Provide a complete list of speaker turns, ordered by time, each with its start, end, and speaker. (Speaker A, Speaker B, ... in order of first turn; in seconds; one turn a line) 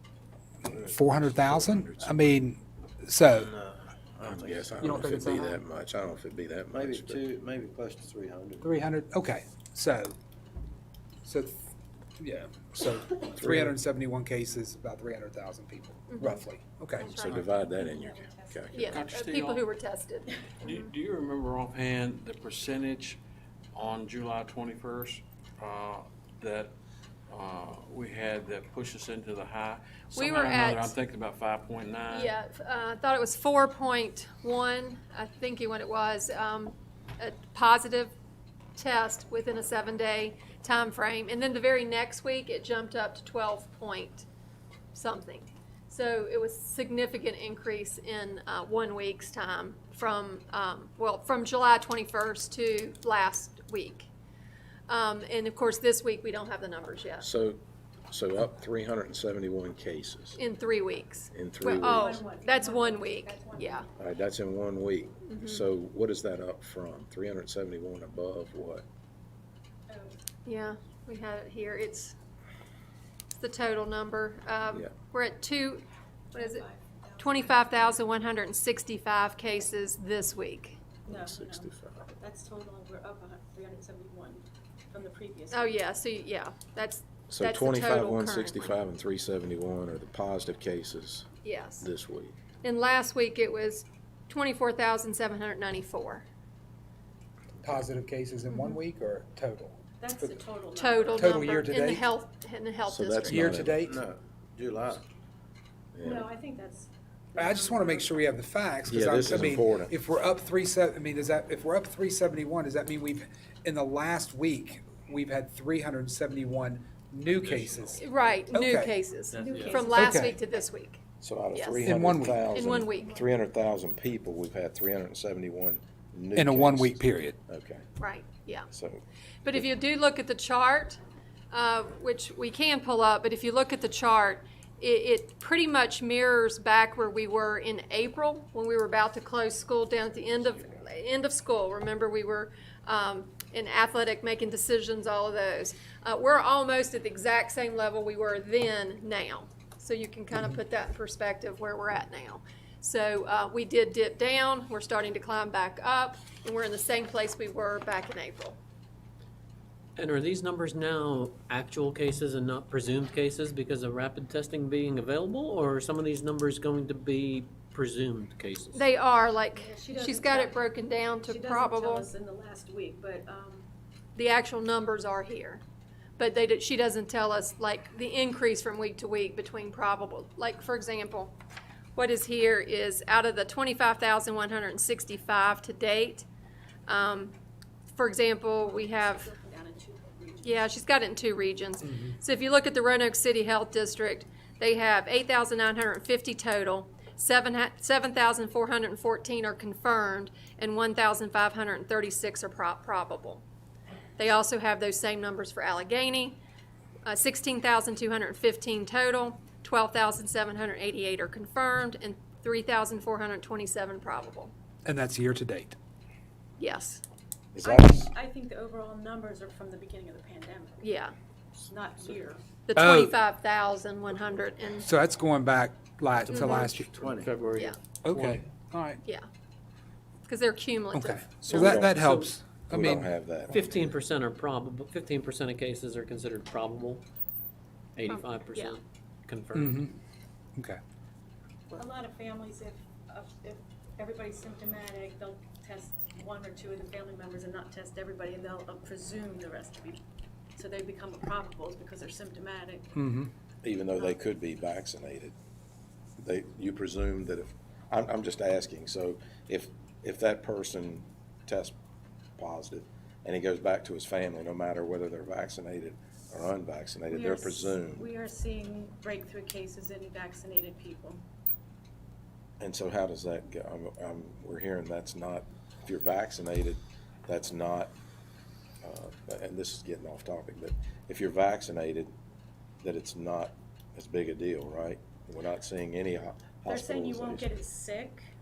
Speaker A: 0.8-3.5
Speaker B: 1.6-2.0
Speaker C: 3.5-5.0
Speaker B: 4.2-7.2
Speaker A: 4.8-5.5
Speaker C: 6.8-8.6
Speaker A: 8.6-10.2
Speaker A: 11.2-11.7
Speaker A: 12.2-17.4
Speaker B: 13.4-13.7
Speaker D: 16.1-16.4
Speaker D: 17.0-17.5
Speaker B: 17.1-18.9
Speaker C: 17.5-18.8
Speaker D: 18.7-20.9
Speaker E: 18.8-19.7
Speaker E: 20.6-23.2
Speaker E: 23.7-26.7
Speaker E: 27.3-32.3
Speaker D: 30.1-30.9
Speaker D: 32.1-38.1
Speaker D: 38.8-44.3
Speaker D: 44.9-54.1
Speaker D: 54.9-57.3
Speaker B: 57.2-60.4
Speaker D: 60.4-63.9
Speaker B: 61.3-62.1
Speaker C: 61.8-63.9
Speaker B: 64.0-68.8
Speaker D: 65.3-65.6
Speaker D: 70.5-72.2
Speaker D: 73.4-76.6
Speaker C: 76.4-77.9
Speaker D: 77.2-80.9
Speaker B: 81.1-82.1
Speaker C: 81.2-81.7
Speaker F: 82.2-84.3
Speaker C: 82.3-82.7
Speaker C: 83.2-84.4
Speaker F: 84.9-85.4
Speaker C: 85.0-85.7
Speaker D: 85.5-88.6
Speaker B: 87.3-91.3
Speaker D: 91.4-91.9
Speaker B: 91.8-92.3
Speaker D: 92.6-96.3
Speaker A: 97.6-100.3
Speaker D: 98.5-98.8
Speaker F: 100.0-100.8
Speaker C: 100.0-101.6
Speaker D: 100.8-103.7
Speaker A: 101.1-102.0
Speaker B: 102.9-104.0
Speaker A: 103.3-104.0
Speaker C: 103.8-105.0
Speaker B: 106.0-106.3
Speaker F: 106.1-106.8
Speaker C: 106.8-107.6
Speaker A: 107.4-118.9
Speaker B: 108.9-109.9
Speaker E: 117.3-118.1
Speaker D: 118.0-121.0
Speaker F: 119.4-119.8
Speaker C: 119.7-120.1
Speaker A: 119.9-120.4
Speaker B: 121.2-127.9
Speaker D: 121.5-121.8
Speaker A: 121.8-122.5
Speaker D: 122.5-123.2
Speaker A: 126.4-127.4
Speaker D: 128.0-128.7
Speaker B: 128.7-129.6
Speaker D: 129.4-131.0
Speaker D: 131.5-158.6
Speaker G: 160.0-168.9
Speaker D: 168.7-172.1
Speaker C: 169.6-170.6
Speaker C: 171.3-172.0
Speaker F: 172.0-173.3
Speaker C: 173.3-173.7
Speaker D: 174.2-175.6
Speaker D: 176.2-181.3
Speaker D: 182.0-186.3
Speaker D: 186.9-187.3
Speaker D: 187.9-189.3
Speaker C: 188.7-189.4
Speaker F: 189.1-190.3
Speaker C: 190.2-190.7
Speaker D: 190.4-203.4
Speaker D: 204.2-206.4
Speaker D: 207.1-214.5
Speaker A: 214.8-215.8
Speaker D: 216.6-217.0
Speaker B: 217.5-218.2
Speaker F: 218.0-220.7
Speaker D: 220.8-221.2
Speaker F: 221.6-222.3
Speaker D: 222.7-224.9
Speaker A: 222.8-223.2
Speaker A: 224.8-226.9
Speaker D: 226.3-226.7
Speaker G: 227.0-228.4
Speaker C: 227.0-227.3
Speaker A: 228.0-229.0
Speaker D: 230.3-231.4
Speaker A: 230.9-233.1
Speaker B: 231.5-231.9
Speaker G: 231.5-232.3
Speaker B: 232.7-233.8
Speaker G: 233.5-237.0
Speaker G: 238.0-239.8
Speaker D: 238.1-238.8
Speaker A: 239.6-239.9
Speaker F: 241.8-250.0
Speaker F: 250.6-252.9
Speaker A: 252.9-253.3
Speaker B: 253.6-255.3
Speaker B: 256.2-261.8
Speaker B: 262.4-268.1
Speaker F: 267.1-271.2
Speaker B: 272.6-277.9
Speaker B: 278.8-282.1
Speaker B: 282.8-287.6
Speaker F: 286.7-288.2